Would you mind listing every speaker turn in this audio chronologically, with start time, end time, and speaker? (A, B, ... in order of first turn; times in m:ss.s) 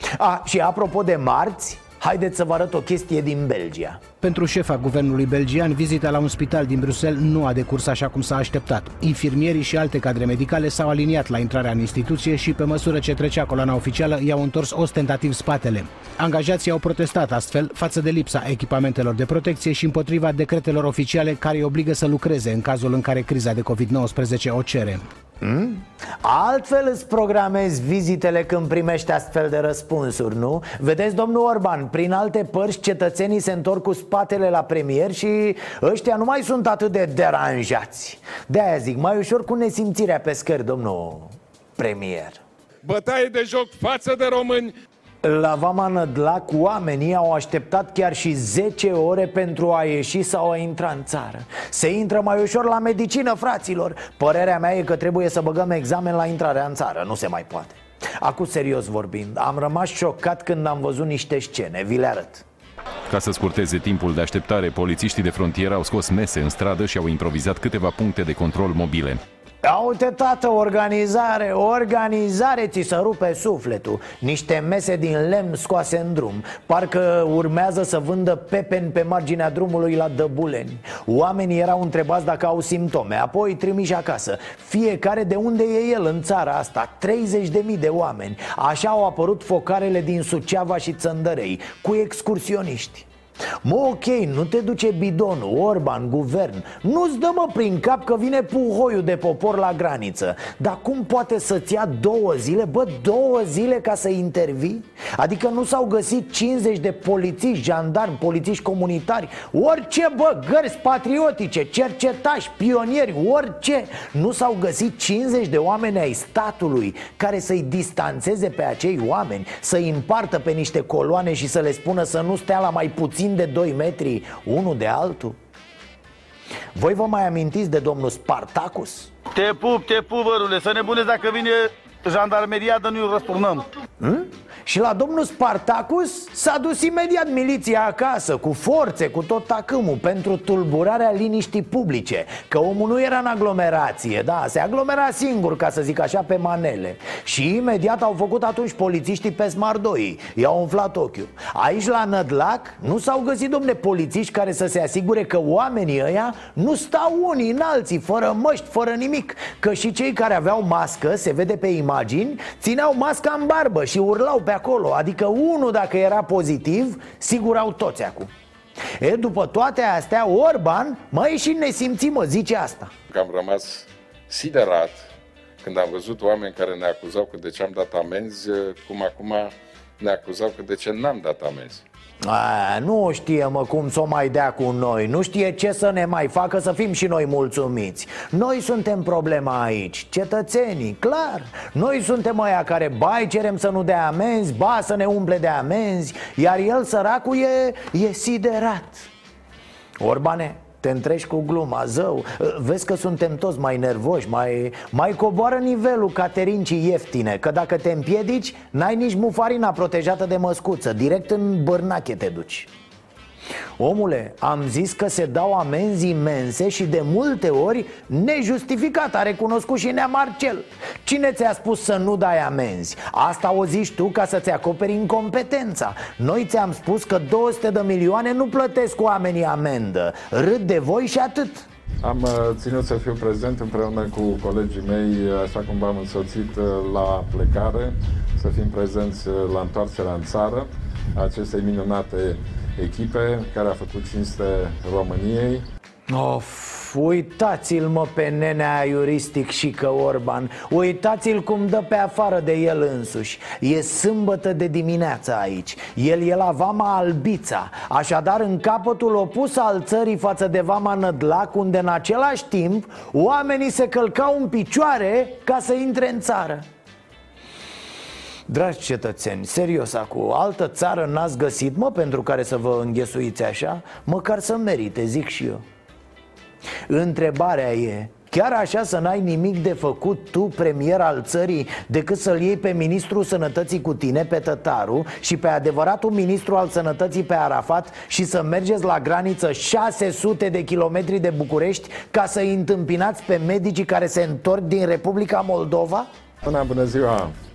0:00.2-0:04.0 A
0:04.2-0:25.0 B
0:25.4-0:42.4 A
0:42.8-0:44.7 C
0:45.2-1:02.4 A
1:03.1-1:09.2 D
1:09.6-1:33.1 A
1:33.6-2:05.4 A
2:06.8-2:09.1 A
2:09.3-2:13.7 E
2:14.0-2:48.3 A
2:49.0-2:52.9 A
2:53.1-2:55.1 C
2:55.6-3:01.8 C
3:02.2-3:19.1 A
3:20.0-3:32.7 A
3:33.8-3:51.7 A
3:52.0-4:05.7 C
4:06.1-4:26.7 A
4:28.5-4:35.6 A
4:36.9-4:56.1 A
4:56.4-4:57.4 C